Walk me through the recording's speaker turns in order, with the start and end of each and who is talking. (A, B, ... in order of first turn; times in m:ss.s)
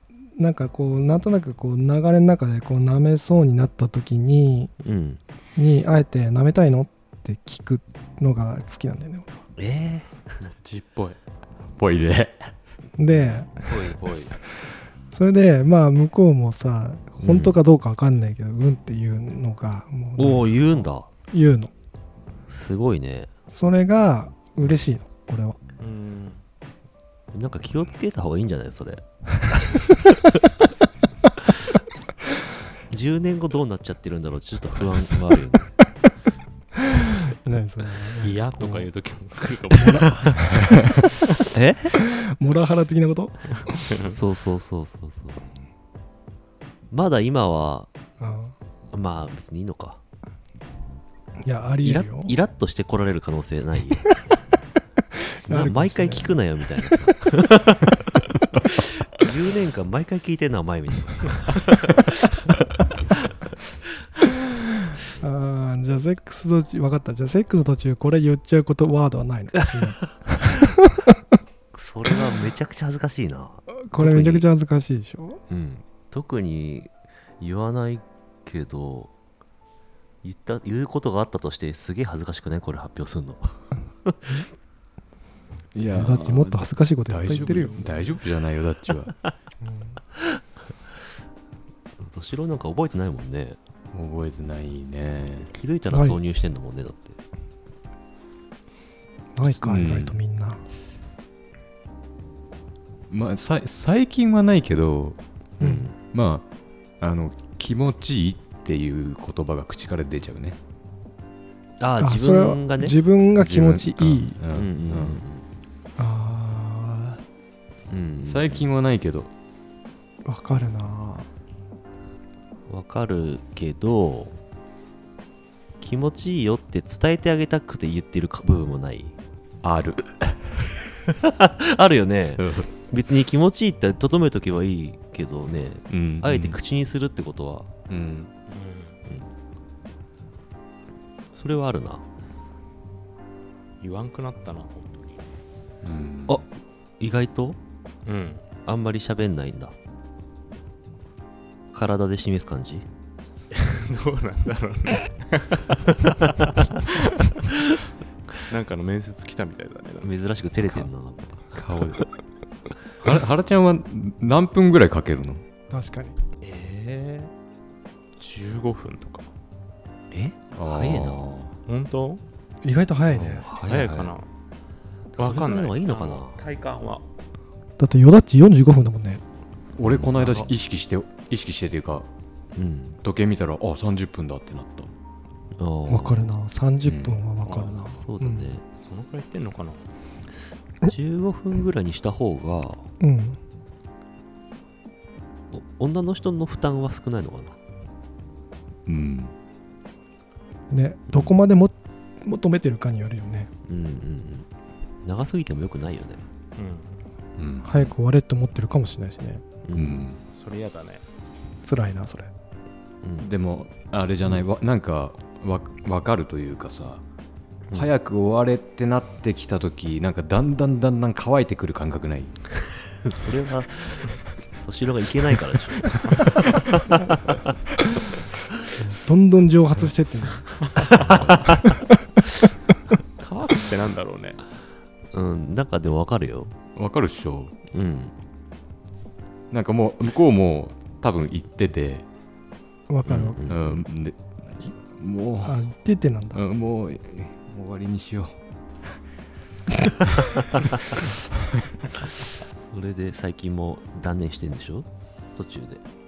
0:00.4-0:04.7 A
0:04.8-0:05.2 B
0:05.6-0:09.5 A
0:09.6-0:10.4 B
0:10.4-0:11.2 C
0:11.8-0:12.5 D
0:13.0-0:13.8 A
0:13.7-0:14.3 B
0:15.1-0:21.7 A
0:17.2-0:17.6 B
0:20.2-0:21.1 B
0:22.5-0:23.3 B
0:23.5-0:25.6 A
0:25.8-0:26.4 C
0:27.3-0:29.0 B
0:32.9-0:35.8 B
0:36.9-0:38.9 A
0:38.2-0:40.7 C
0:39.7-0:40.9 A
0:41.5-0:42.0 B
0:42.0-0:43.8 A
0:43.7-0:44.2 C
0:44.0-0:45.4 B
0:46.9-0:47.9 B
0:48.2-0:48.6 A
0:48.9-0:50.0 B
0:51.4-0:52.4 A
0:51.8-0:54.1 B
0:55.4-0:56.4 A
0:55.5-0:58.1 B
0:58.7-1:02.1 B
1:05.1-1:11.1 A
1:11.7-1:14.5 B
1:13.7-1:15.4 A
1:15.5-1:19.1 B
1:20.2-1:24.4 B
1:25.7-1:29.1 D
1:25.8-1:28.1 A
1:29.6-1:30.0 A
1:32.0-1:33.6 B
1:33.9-1:35.5 D
1:35.5-1:37.2 B
1:35.9-1:36.2 A
1:39.4-1:40.6 A
1:39.4-1:40.2 D
1:43.1-1:45.2 D
1:45.6-1:45.9 A
1:45.6-1:46.0 B
1:46.0-1:46.5 D
1:47.0-1:50.6 D
1:51.8-1:53.0 B
1:52.0-1:54.4 A
1:53.4-1:55.2 D
1:54.5-1:55.5 B
1:56.0-1:57.2 A
1:57.9-1:58.7 B
1:58.3-1:59.3 D
2:00.2-2:01.3 A
2:02.7-2:04.4 B
2:05.8-2:09.2 B
2:09.6-2:10.6 D
2:11.2-2:17.7 B
2:12.4-2:12.7 D
2:15.9-2:16.6 D
2:17.9-2:18.3 D
2:18.5-2:19.0 C
2:21.3-2:22.1 B
2:23.8-2:25.2 C
2:25.8-2:26.4 D
2:27.0-2:27.6 B
2:28.1-2:28.4 C
2:28.6-2:29.8 B
2:31.7-2:32.9 B
2:33.5-2:36.5 C
2:38.4-2:40.1 C
2:40.0-2:41.6 B
2:40.6-2:40.9 D
2:41.5-2:42.0 D
2:43.0-2:45.4 D
2:45.7-2:46.2 A
2:46.4-2:47.3 C
2:48.2-2:49.3 C
2:50.1-2:51.3 B
2:50.5-2:51.5 D
2:51.7-2:52.2 C
2:52.6-2:53.5 A
2:53.1-2:54.1 B
2:53.6-2:54.3 C
2:55.1-2:56.4 B
2:55.2-2:57.1 C
2:57.8-2:59.2 A
2:59.8-3:02.1 D
2:59.9-3:00.4 B
3:02.6-3:03.0 B
3:03.0-3:04.9 D
3:05.6-3:06.3 B
3:05.9-3:08.5 A
3:06.8-3:07.2 D
3:07.4-3:07.8 C
3:07.9-3:08.6 B
3:08.8-3:09.8 C
3:10.9-3:12.9 B
3:13.0-3:13.4 A
3:15.5-3:17.6 B
3:18.9-3:19.3 D
3:20.7-3:23.5 A
3:23.7-3:24.5 B
3:25.0-3:26.2 B
3:26.6-3:27.0 C
3:27.4-3:27.9 D
3:27.6-3:29.4 A
3:29.6-3:30.1 B
3:29.8-3:30.2 D
3:30.3-3:31.0 C
3:31.6-3:32.3 A
3:33.0-3:33.3 B
3:33.2-3:37.0 D
3:37.7-3:37.9 B
3:37.7-3:42.4 D
3:43.0-3:47.4 B
3:48.8-3:50.6 A
3:50.8-3:51.7 B
3:51.0-3:51.3 D
3:53.2-3:54.4 C
3:55.1-3:56.5 B
3:56.8-3:57.5 D
3:57.7-3:58.2 B
3:59.5-4:02.1 D
4:02.9-4:03.4 A
4:03.0-4:03.8 B
4:03.5-4:05.6 D
4:05.4-4:06.4 A
4:06.3-4:08.4 D
4:12.7-4:15.8 B